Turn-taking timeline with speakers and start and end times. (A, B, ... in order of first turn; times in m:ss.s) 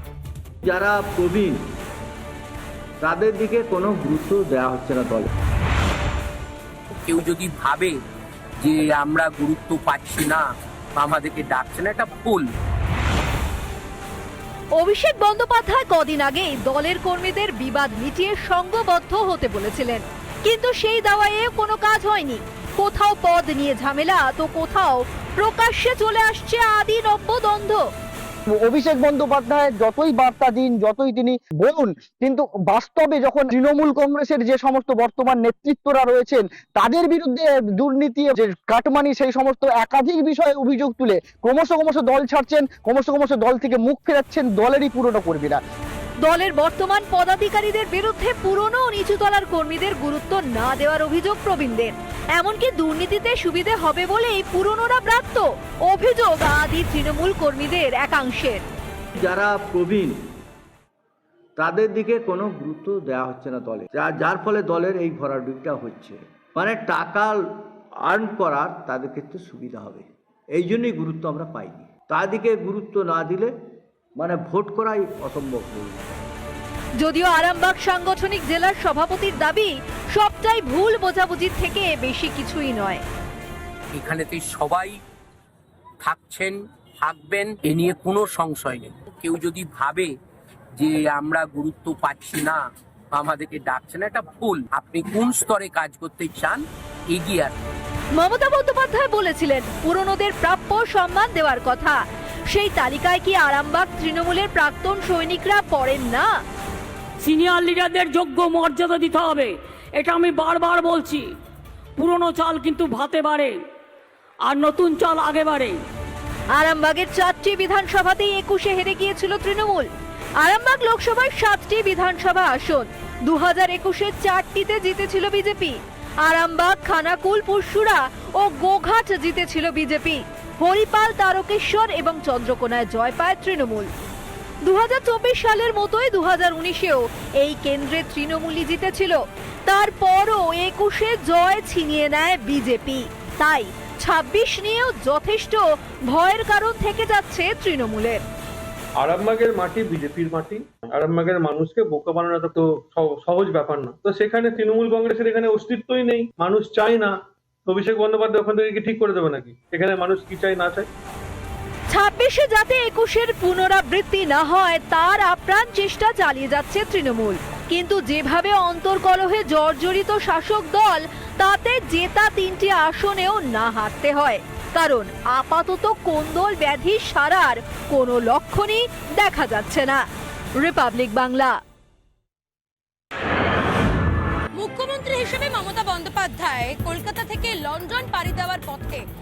0:00.6-0:01.6 A
0:03.0-0:05.3 A
0:06.9-0:07.9 B
0:08.6-0:12.5 B
0:14.8-0:27.8 C
0:28.5-0:45.6 D
0:46.2-0:58.6 C
0:59.2-1:00.2 A
1:01.6-1:13.5 A
1:14.2-1:16.1 A
1:17.0-1:23.0 C
1:23.9-1:25.0 B
1:26.0-1:30.1 B
1:30.8-1:37.5 B
1:38.2-1:46.4 C
1:47.2-1:51.3 E
1:52.0-1:53.6 E
1:54.4-1:55.8 E
1:56.5-1:59.9 C
2:00.4-2:13.9 C
2:14.6-2:28.2 C
2:29.0-2:37.1 F
2:37.6-2:40.9 F
2:41.9-3:00.0 C
3:00.6-3:01.6 C
3:04.6-3:09.0 G